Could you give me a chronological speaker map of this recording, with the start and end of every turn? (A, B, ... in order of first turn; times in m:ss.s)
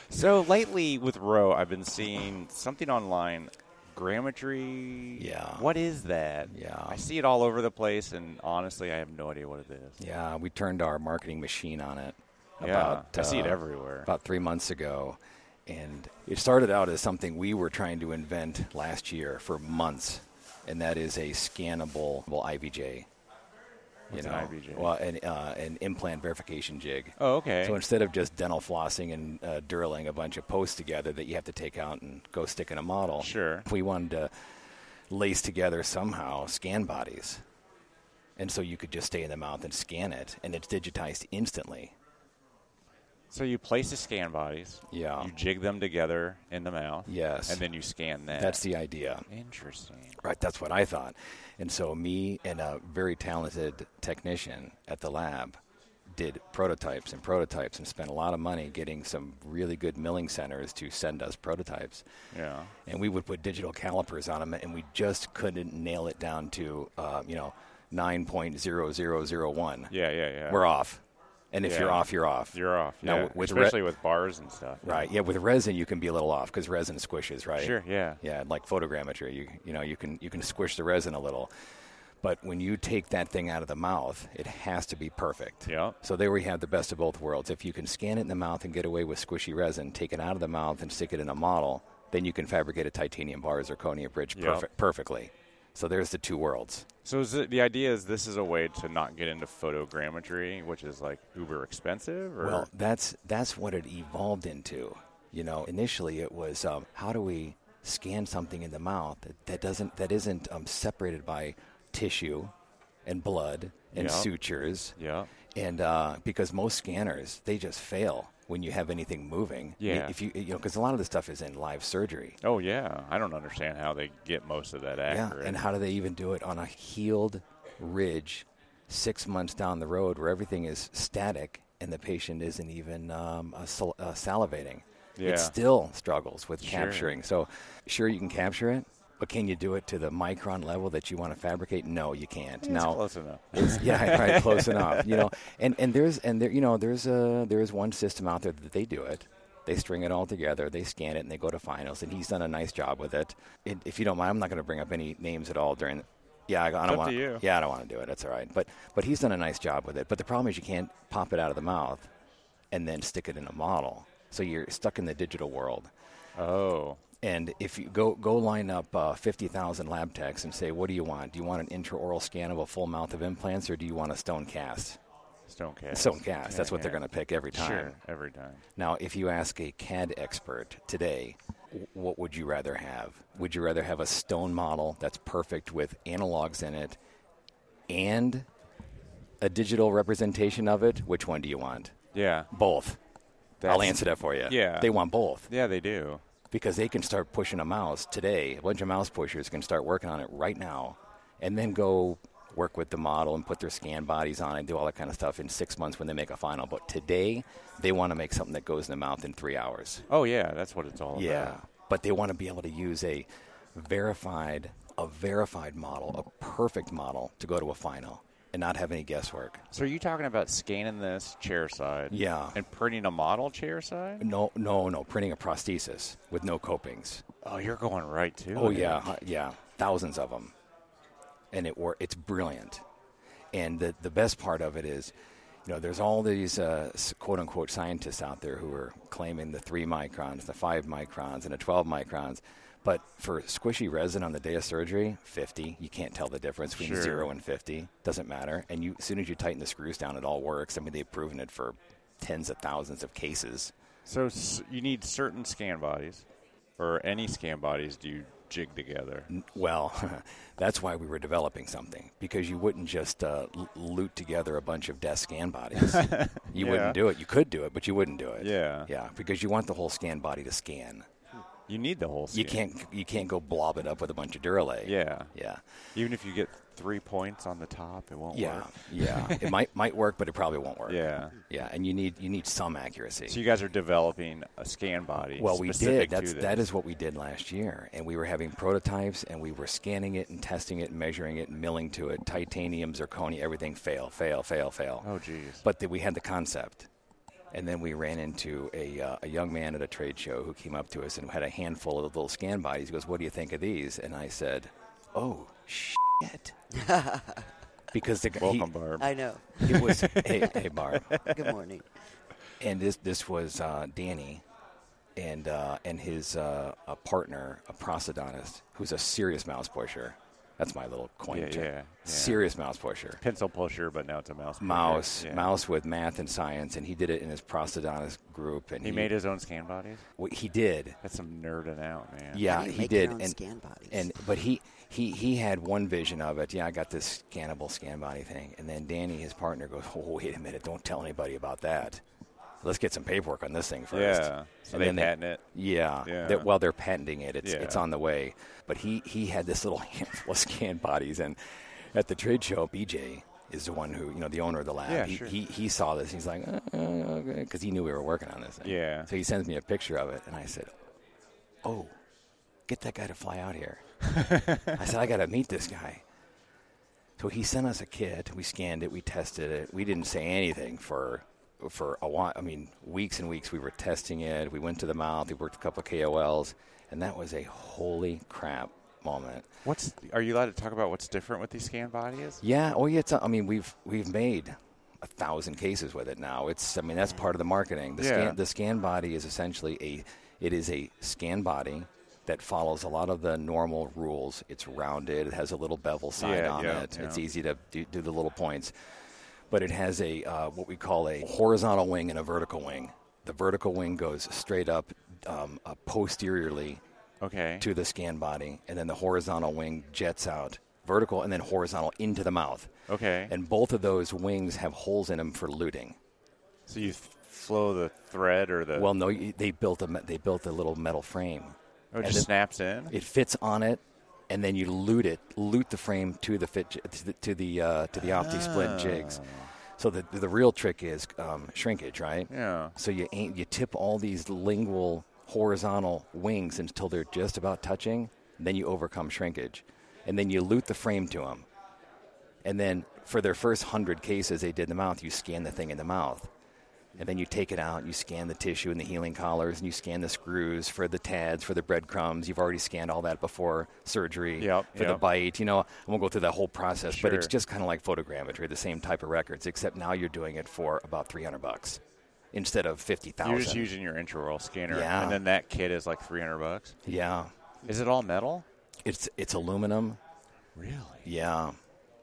0:00.1-0:10.0 A
0:05.2-0:05.7 B
0:06.5-0:07.0 B
0:10.0-0:23.1 B
0:12.6-0:14.1 A
0:24.1-0:24.9 A
0:24.1-0:34.3 B
0:27.2-0:27.8 A
0:33.2-0:33.6 A
0:35.1-0:37.4 B
0:38.4-0:41.9 B
0:43.3-0:48.6 A
0:44.9-0:45.3 B
0:47.0-0:47.6 B
0:48.3-0:49.2 B
0:49.3-0:50.2 A
0:50.2-1:02.0 B
1:02.3-1:02.7 A
1:02.8-1:09.9 B
1:09.9-1:10.6 A
1:10.5-1:13.8 B
1:11.6-1:15.1 A
1:14.8-1:21.5 B
1:17.6-1:18.2 A
1:22.2-1:36.9 B
1:25.7-1:26.0 A
1:34.3-1:34.7 A
1:37.0-1:42.7 A
1:42.4-1:52.5 B
1:53.0-1:54.9 B
1:53.9-1:54.3 A
1:55.0-1:55.3 A
1:55.5-2:02.4 B
1:59.8-2:00.1 A
2:02.4-2:05.6 A
2:05.0-2:23.0 B
2:15.2-2:15.6 A
2:16.6-2:17.2 A
2:22.6-2:25.3 A
2:23.5-2:42.1 B
2:36.8-2:37.4 A
2:42.7-2:45.9 B
2:46.4-2:47.0 A
2:47.2-2:55.0 B
2:55.5-2:58.6 A
2:55.9-2:58.0 B
2:58.8-3:07.0 B
3:07.9-3:08.5 B
3:09.4-3:12.0 B
3:12.1-3:12.5 A
3:12.5-3:13.0 B
3:13.6-3:16.2 A
3:13.6-3:15.5 B
3:16.5-3:30.0 B
3:30.1-3:31.6 A
3:31.1-3:39.6 B
3:39.7-3:44.3 A
3:42.1-3:42.6 B
3:44.2-3:47.2 B
3:47.4-3:49.1 A
3:48.5-3:50.5 B
3:51.5-3:52.8 B
3:53.5-3:55.1 B
3:55.6-4:13.7 B
4:06.8-4:07.3 A
4:14.0-4:16.2 A
4:16.8-4:19.3 A
4:19.3-4:31.1 B
4:25.8-4:27.0 A
4:28.4-4:28.9 A
4:31.7-4:32.6 A
4:32.3-4:35.6 B
4:34.8-4:35.3 A
4:35.9-4:39.6 A
4:38.3-4:43.4 B
4:40.9-4:41.4 A
4:43.3-4:46.6 A
4:45.4-4:55.1 B
4:55.0-4:55.6 A
4:55.6-4:56.9 B
4:57.5-5:06.5 B
5:06.7-5:07.4 C
5:07.9-5:08.7 B
5:08.4-5:11.4 A
5:09.0-5:10.6 C
5:09.6-5:11.2 B
5:11.2-5:11.8 C
5:12.6-5:14.4 B
5:15.2-5:23.2 B
5:21.3-5:22.4 A
5:23.2-5:25.5 A
5:24.6-5:29.1 B
5:28.8-5:30.0 A
5:30.2-5:31.0 B
5:31.0-5:32.4 A
5:32.3-5:42.0 B
5:32.4-5:34.1 C
5:42.6-6:00.7 B
5:43.9-5:45.4 A
5:46.0-5:46.5 A
5:47.4-5:47.8 A
5:54.9-5:55.3 A
5:58.6-5:59.1 A
6:01.6-6:01.9 B
6:02.7-6:03.9 B
6:04.1-6:04.7 A
6:04.7-6:06.0 B
6:07.2-6:19.5 B
6:19.6-6:22.4 A
6:22.4-6:38.7 B
6:28.0-6:28.4 A
6:36.2-6:37.2 A
6:39.5-6:46.8 B
6:47.2-6:47.7 A
6:47.6-6:52.7 B
6:52.9-6:53.3 A
6:53.3-6:56.0 B
6:56.7-6:58.9 A
6:58.7-7:02.3 B
7:01.9-7:03.0 A
7:02.9-7:09.2 B
7:08.0-7:09.5 A
7:09.8-7:21.5 B
7:12.3-7:12.7 A
7:22.4-7:26.3 B
7:27.0-7:41.8 B
7:34.4-7:35.0 A
7:36.9-7:37.3 A
7:42.3-7:43.7 B
7:43.2-7:46.8 A
7:44.7-7:45.2 B
7:46.8-7:47.3 B
7:47.6-7:48.4 A
7:48.8-7:50.0 B
7:50.6-7:51.0 A
7:51.0-7:51.6 B